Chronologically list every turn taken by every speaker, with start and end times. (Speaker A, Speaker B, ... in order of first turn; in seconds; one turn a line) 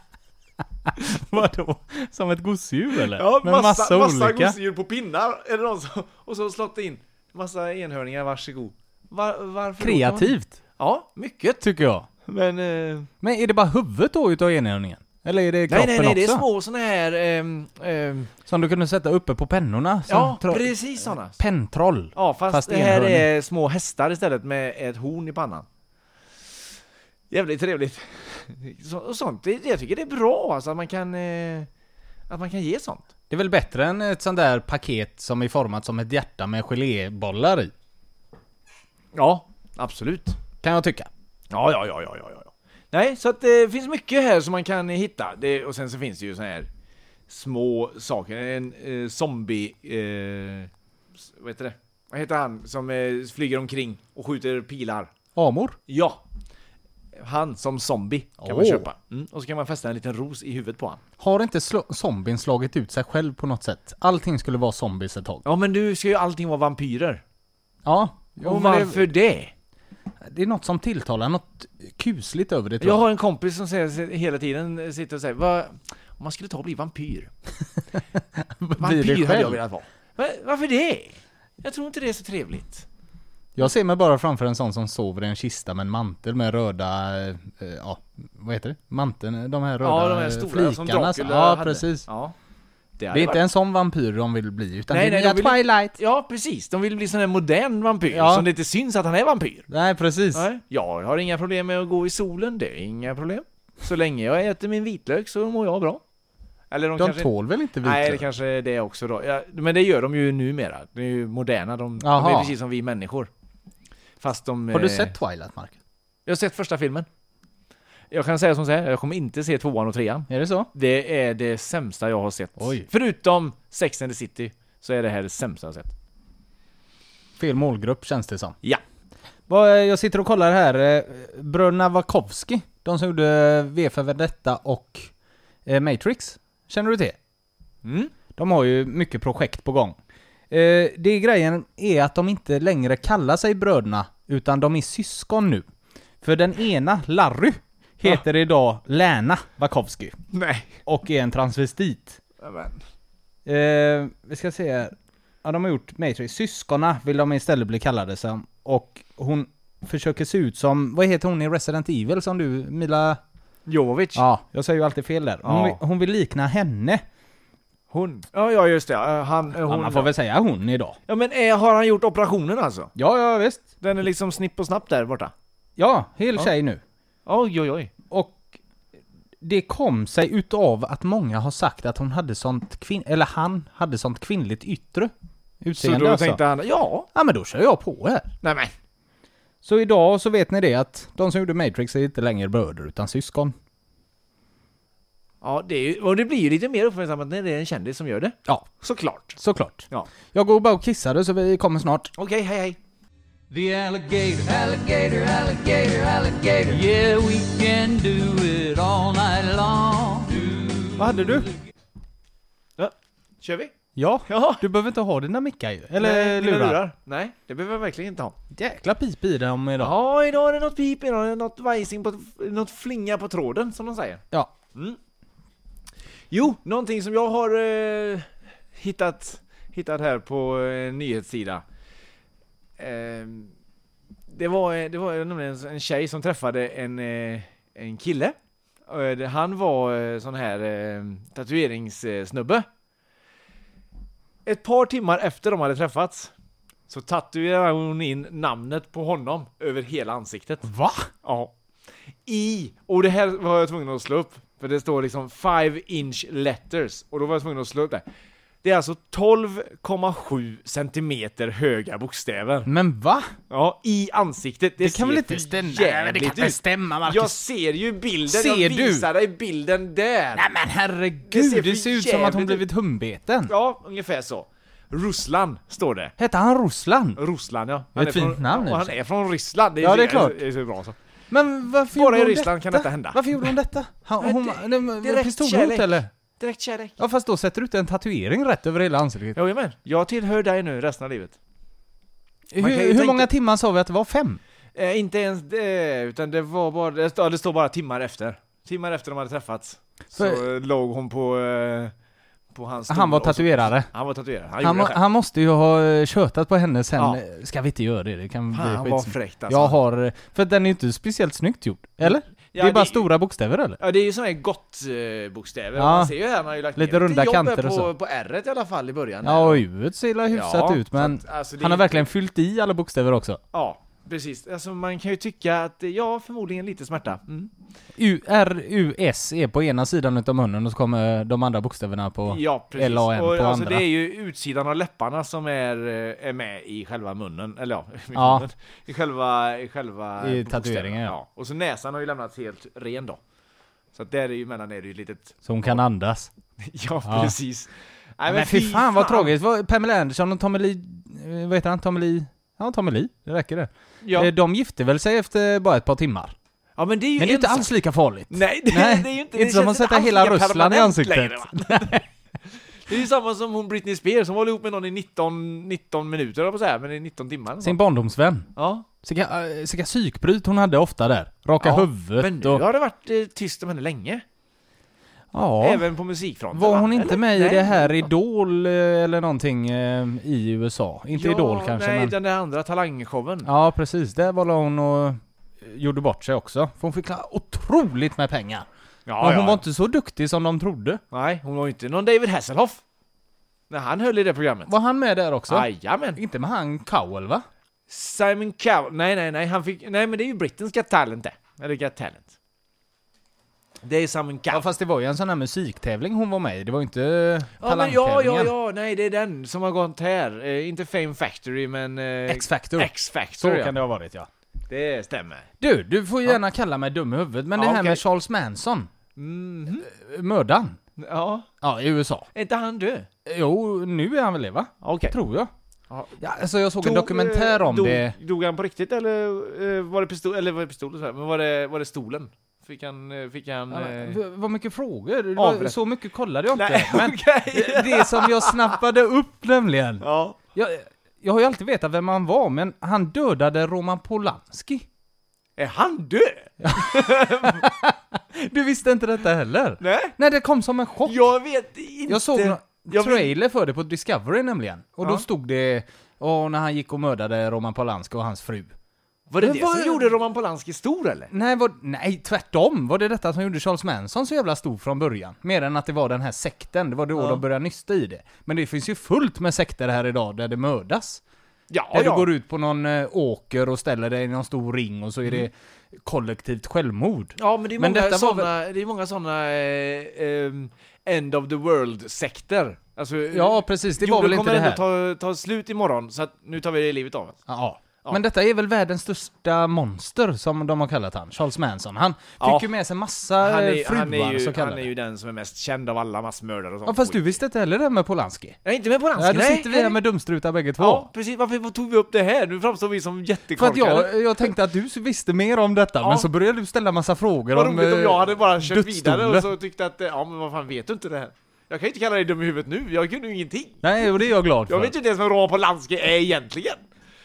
Speaker A: 0.9-4.5
Speaker B: 3.1-11.6
Speaker A: 9.8-10.5
Speaker A: 11.6-12.1
Speaker B: 12.2-13.1
Speaker A: 13.2-16.4
Speaker B: 15.7-18.3
Speaker A: 18.5-20.7
Speaker B: 20.1-21.4
Speaker A: 21.3-23.3
Speaker B: 22.1-25.6
Speaker B: 27.3-31.7
Speaker B: 32.3-33.1
Speaker A: 33.3-37.7
Speaker B: 39.1-40.4
Speaker A: 40.6-41.1
Speaker B: 41.5-46.7
Speaker B: 47.3-50.7
Speaker B: 51.2-55.1
Speaker A: 55.3-55.8
Speaker B: 55.9-56.2
Speaker B: 57.1-61.0
Speaker A: 58.4-58.9
Speaker A: 61.2-65.4
Speaker B: 65.4-67.2
Speaker A: 67.8-69.1
Speaker B: 68.4-69.5
Speaker A: 70.2-73.0
Speaker B: 72.8-77.3
Speaker A: 78.2-79.6
Speaker B: 78.8-82.8
Speaker A: 83.5-92.1
Speaker B: 89.8-92.3
Speaker B: 93.0-93.4
Speaker A: 93.1-96.0
Speaker B: 94.9-99.7
Speaker A: 98.1-98.5
Speaker A: 99.7-100.5
Speaker B: 100.3-106.0
Speaker B: 106.7-113.3
Speaker A: 107.0-108.2
Speaker A: 112.0-112.5
Speaker B: 114.2-115.1
Speaker A: 114.7-115.8
Speaker B: 116.2-117.1
Speaker B: 118.1-125.9
Speaker A: 120.3-120.7
Speaker A: 122.6-122.8
Speaker A: 127.4-128.6
Speaker A: 129.5-135.1
Speaker A: 135.7-137.2
Speaker B: 137.8-138.1
Speaker A: 138.3-139.9
Speaker A: 140.5-145.7
Speaker A: 146.2-150.2
Speaker B: 150.3-150.8
Speaker A: 150.8-152.2
Speaker B: 152.4-152.8
Speaker A: 153.4-163.2
Speaker B: 163.7-164.2
Speaker A: 164.1-167.0
Speaker B: 165.4-165.8
Speaker B: 167.9-170.1
Speaker A: 169.6-171.0
Speaker B: 171.1-172.9
Speaker A: 172.9-173.6
Speaker B: 173.8-175.3
Speaker A: 175.8-176.8
Speaker B: 177.2-177.9
Speaker A: 178.1-178.4
Speaker A: 179.4-186.4
Speaker B: 185.8-187.1
Speaker A: 187.1-188.3
Speaker B: 188.4-188.7
Speaker A: 189.6-193.6
Speaker B: 195.4-199.3
Speaker A: 199.3-202.1
Speaker B: 202.1-202.8
Speaker C: 203.5-211.4
Speaker A: 211.0-211.5
Speaker B: 212.8-213.7
Speaker A: 213.9-216.8
Speaker B: 214.3-214.6
Speaker B: 216.0-218.3
Speaker A: 218.5-219.9
Speaker B: 219.8-224.2
Speaker B: 226.3-231.6
Speaker B: 232.8-233.5
Speaker B: 234.3-238.3
Speaker B: 238.9-242.7
Speaker B: 244.4-246.3
Speaker B: 246.9-250.7
Speaker A: 250.7-251.1
Speaker B: 251.2-251.5
Speaker B: 252.2-258.0
Speaker B: 258.6-262.7
Speaker A: 262.6-263.3
Speaker B: 263.5-270.5
Speaker A: 264.8-267.4
Speaker A: 268.3-269.1
Speaker A: 270.3-273.5
Speaker B: 271.2-272.6
Speaker B: 273.5-276.1
Speaker A: 276.2-277.2
Speaker B: 277.2-280.9
Speaker A: 277.9-278.9
Speaker A: 279.8-280.4
Speaker A: 281.3-286.1
Speaker B: 281.9-283.4
Speaker B: 284.2-287.0
Speaker A: 287.0-289.4
Speaker B: 289.3-291.4
Speaker A: 292.5-294.4
Speaker B: 292.6-293.3
Speaker B: 294.7-301.9
Speaker A: 300.1-300.4
Speaker B: 302.5-305.0
Speaker A: 302.9-303.9
Speaker A: 304.6-313.8
Speaker B: 308.5-309.8
Speaker B: 312.0-313.1
Speaker B: 313.8-319.6
Speaker A: 315.8-316.1
Speaker A: 316.8-317.9
Speaker A: 319.2-323.4
Speaker B: 320.3-322.1
Speaker B: 323.5-327.5
Speaker A: 328.0-333.9
Speaker B: 332.3-343.2
Speaker A: 338.1-338.4
Speaker A: 340.2-341.1
Speaker B: 343.9-345.4
Speaker A: 345.4-346.3
Speaker B: 346.6-349.3
Speaker A: 347.1-347.3
Speaker A: 348.3-356.3
Speaker B: 354.0-354.3
Speaker B: 356.8-357.7
Speaker A: 357.2-362.0
Speaker B: 358.3-362.0
Speaker B: 362.9-367.8
Speaker A: 367.6-368.5
Speaker B: 368.6-368.9
Speaker A: 369.0-372.6
Speaker B: 371.6-374.2
Speaker A: 375.3-375.9
Speaker B: 375.6-378.1
Speaker A: 376.5-382.1
Speaker B: 381.1-383.5
Speaker A: 383.4-388.6
Speaker B: 389.1-389.6
Speaker A: 389.2-391.0
Speaker B: 391.1-392.8
Speaker B: 393.7-394.7
Speaker A: 394.7-397.4
Speaker B: 395.5-396.2
Speaker B: 397.9-402.3
Speaker B: 403.8-404.7
Speaker A: 404.5-408.5
Speaker B: 407.6-413.7
Speaker A: 412.3-414.3
Speaker B: 414.7-415.5
Speaker A: 415.6-418.9
Speaker B: 417.5-418.0
Speaker B: 419.1-419.9
Speaker A: 419.8-420.8
Speaker B: 421.0-421.5
Speaker A: 421.6-422.3
Speaker B: 422.3-423.1
Speaker A: 423.2-425.5
Speaker B: 424.8-425.1
Speaker B: 425.9-426.2
Speaker A: 426.2-428.1
Speaker B: 426.8-434.2
Speaker A: 433.7-440.0
Speaker B: 435.4-435.8
Speaker B: 436.5-438.8
Speaker B: 440.0-440.4
Speaker A: 440.5-444.9
Speaker B: 445.6-447.7
Speaker A: 446.6-451.2
Speaker B: 449.8-450.1
Speaker B: 451.0-453.3
Speaker A: 452.1-458.7
Speaker B: 459.3-461.3
Speaker A: 459.4-460.1
Speaker A: 461.3-471.2
Speaker B: 467.1-467.4
Speaker B: 471.7-472.3
Speaker A: 471.9-478.5
Speaker B: 477.4-487.4
Speaker A: 483.3-484.8
Speaker A: 487.5-494.9
Speaker B: 492.4-492.7
Speaker B: 493.4-497.4
Speaker A: 496.9-498.6
Speaker B: 498.6-500.0
Speaker A: 499.1-501.1
Speaker B: 500.8-504.5
Speaker A: 503.6-509.5
Speaker B: 506.0-506.3
Speaker B: 507.5-513.8
Speaker A: 513.8-514.9
Speaker B: 514.7-516.8